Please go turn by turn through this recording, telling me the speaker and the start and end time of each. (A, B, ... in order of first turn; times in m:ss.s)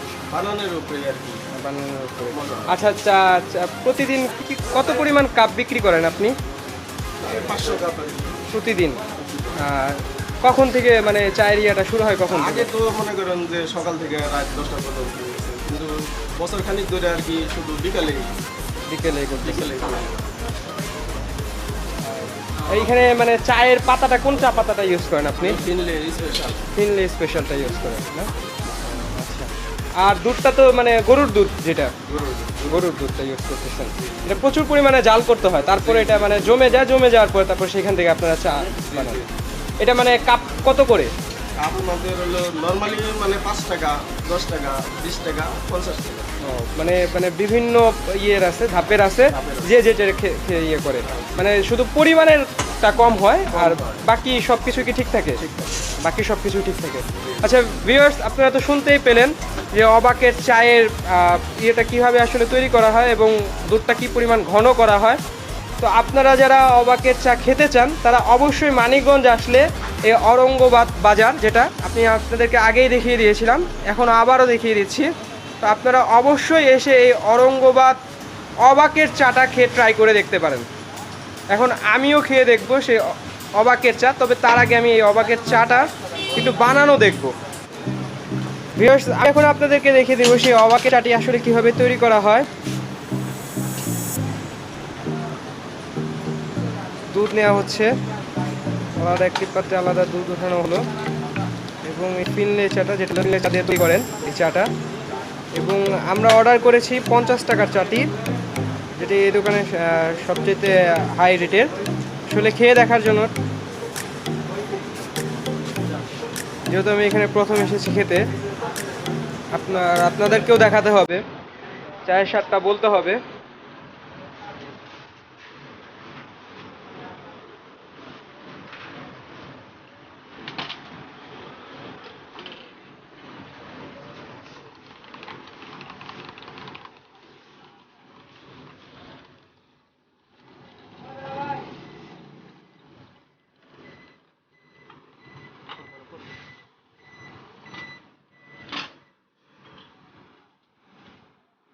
0:00.3-0:01.4 A
0:01.5-0:06.3 B
0:02.3-0:02.7 A
0:07.2-0:08.4 A
0:08.5-0:09.0 B
0:09.2-0:09.6 A
0:09.6-0:12.7 B
0:12.3-0:18.3 A
0:18.9-0:19.7 B
0:19.4-0:20.2 A
0:22.0-0:25.6 B
0:25.4-0:26.7 A
0:26.7-0:28.3 B
0:28.9-0:31.9 B
0:32.1-0:32.8 A
0:32.6-0:39.2 B
0:35.8-0:36.7 A
0:38.9-0:39.3 A
0:39.8-0:41.1 B
0:41.6-0:46.3 A
0:46.4-0:55.4 B
0:49.3-0:49.8 A
0:51.1-0:51.4 A
0:53.5-0:54.0 A
0:55.4-0:55.8 A
0:56.0-1:05.2 B
0:57.1-0:57.6 A
1:05.8-1:18.0 B
1:18.6-1:20.6 B
1:21.5-1:27.3 B
1:28.7-1:32.5 B
1:37.1-1:37.9 B
1:39.0-1:40.8 B
1:41.8-1:44.7 B
1:45.5-1:48.1 B
1:49.0-1:51.7 B
1:52.3-1:53.3 B
1:56.7-1:58.3 B
1:59.5-2:01.2 B
2:02.0-2:03.2 B